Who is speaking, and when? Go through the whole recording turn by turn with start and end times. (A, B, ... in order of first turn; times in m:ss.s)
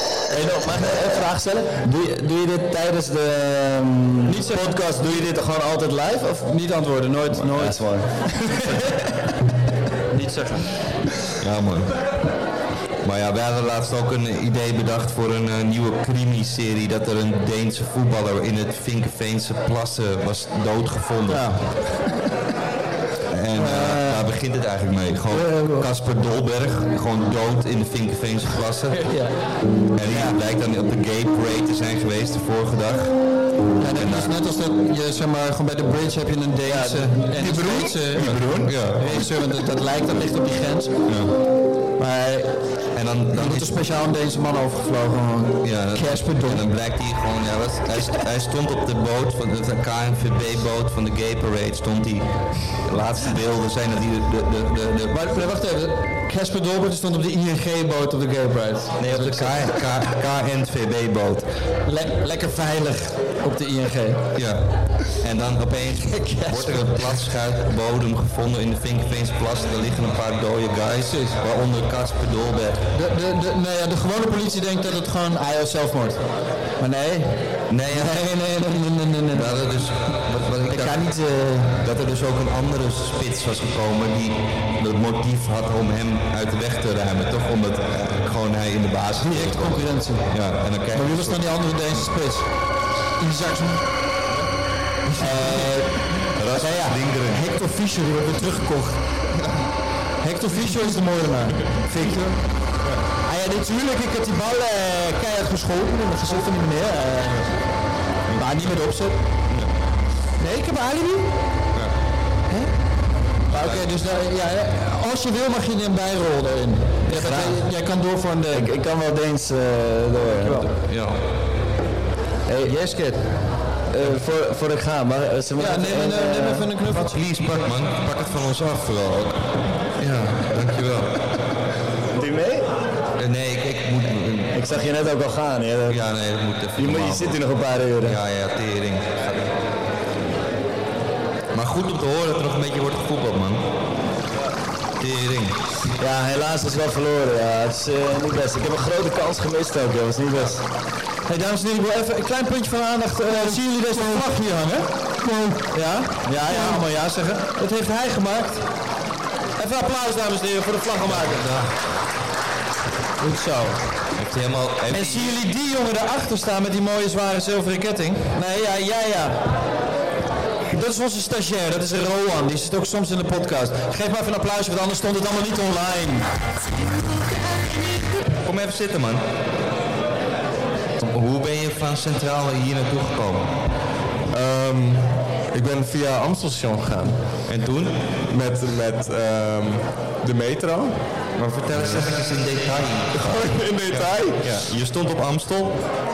0:00.3-0:06.5 A
0:00.3-0:00.9 B
0:04.3-0:04.9 B
0:06.4-0:08.9 B
0:07.3-0:08.1 A
0:10.1-0:10.7 B
0:11.4-0:11.9 C
0:13.0-0:21.6 C
0:21.3-0:21.8 B
0:23.3-0:29.0 C
0:23.6-0:24.3 B
0:25.3-0:25.9 B
0:28.9-0:29.4 B
0:29.9-0:33.2 C
0:33.8-0:41.0 B
0:33.9-0:34.3 C
0:36.6-0:37.3 A
0:37.3-0:38.8 D
0:38.6-0:39.2 C
0:41.1-0:41.3 C
0:42.0-0:42.5 B
0:42.9-0:43.8 C
0:43.3-0:46.6 B
0:45.6-0:55.3 C
0:55.1-0:59.7 B
0:59.0-1:01.5 C
1:01.8-1:04.2 B
1:04.3-1:12.8 C
1:06.0-1:07.1 B
1:11.0-1:11.4 B
1:12.9-1:16.2 B
1:16.8-1:19.7 B
1:17.7-1:18.2 C
1:19.3-1:21.0 C
1:20.7-1:21.8 B
1:21.8-1:32.1 C
1:29.2-1:30.3 B
1:30.9-1:32.5 B
1:33.2-1:33.8 B
1:35.2-1:35.6 C
1:35.2-1:36.0 A
1:35.2-1:35.8 B
1:36.3-1:37.5 C
1:36.6-1:39.0 B
1:40.2-1:42.4 B
1:43.2-1:47.5 B
1:48.3-1:49.2 B
1:50.4-1:51.4 B
1:53.5-1:58.7 B
1:53.5-1:53.9 C
1:57.1-1:57.5 C
1:57.2-1:57.6 A
1:58.5-2:00.7 A
2:00.4-2:00.7 B
2:00.8-2:01.2 C
2:02.5-2:02.8 A
2:02.6-2:03.5 B
2:03.9-2:06.7 A
2:05.6-2:07.2 B
2:06.8-2:11.2 C
2:12.1-2:12.7 A
2:13.2-2:14.6 C
2:14.5-2:16.0 A
2:15.9-2:17.4 C
2:16.8-2:18.2 A
2:18.0-2:19.6 C
2:21.5-2:23.6 C
2:25.0-2:25.6 C
2:26.0-2:30.6 A
2:31.3-2:38.6 B
2:39.6-2:41.4 B
2:41.0-2:41.7 C
2:43.2-2:43.9 B
2:44.2-2:45.4 C
2:44.9-2:49.4 B
2:50.7-2:56.3 B
2:58.4-2:59.2 C
3:01.0-3:03.6 C
3:04.3-3:07.2 D
3:07.5-3:08.0 C
3:08.2-3:11.0 D
3:11.4-3:15.8 C
3:13.1-3:14.6 D